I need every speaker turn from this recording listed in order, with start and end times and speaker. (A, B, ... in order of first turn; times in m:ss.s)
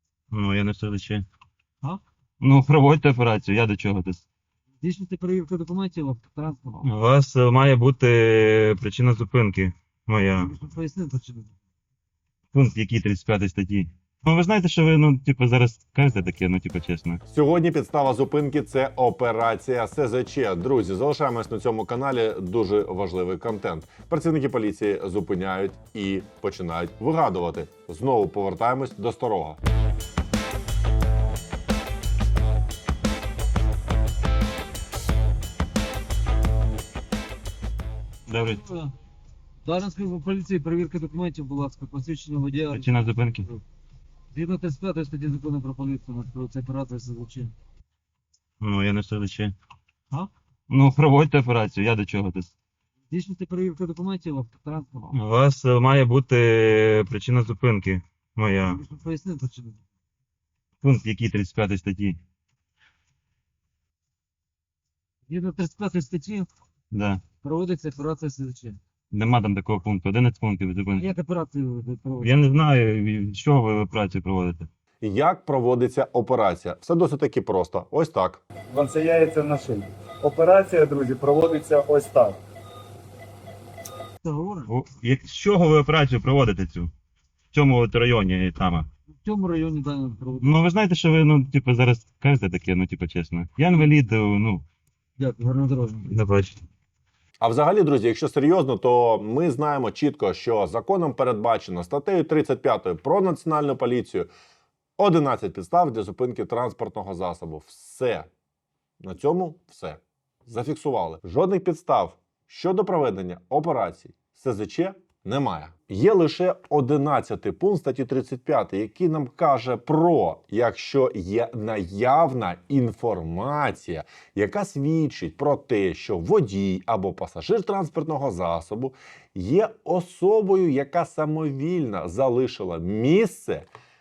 0:00.3-0:01.2 A
0:02.4-0:04.2 A
0:04.8-0:06.8 B
0:06.8-0:10.5 A
0:10.4-0:11.5 B
0:12.5-0:17.2 A
0:17.3-0:29.6 C
0:38.3-0:38.6 A
0:38.5-0:38.9 B
0:39.6-0:42.9 B
0:42.7-0:43.4 A
0:44.3-0:47.5 B
0:48.6-0:49.5 A
0:50.7-0:52.5 A
0:53.1-0:55.1 B
0:55.1-0:58.8 A
0:58.7-0:59.8 B
1:00.8-1:02.2 A
1:05.3-1:06.5 B
1:06.9-1:07.2 A
1:07.4-1:08.8 B
1:09.1-1:11.1 A
1:10.9-1:12.3 B
1:12.2-1:14.7 A
1:15.0-1:18.4 C
1:18.7-1:22.4 D
1:24.2-1:24.7 B
1:24.7-1:26.9 A
1:27.5-1:28.9 A
1:29.2-1:30.5 B
1:30.4-1:34.6 A
1:35.2-1:36.1 B
1:36.1-1:36.6 A
1:37.4-1:44.3 C
1:45.0-1:48.3 C
1:49.0-2:13.7 C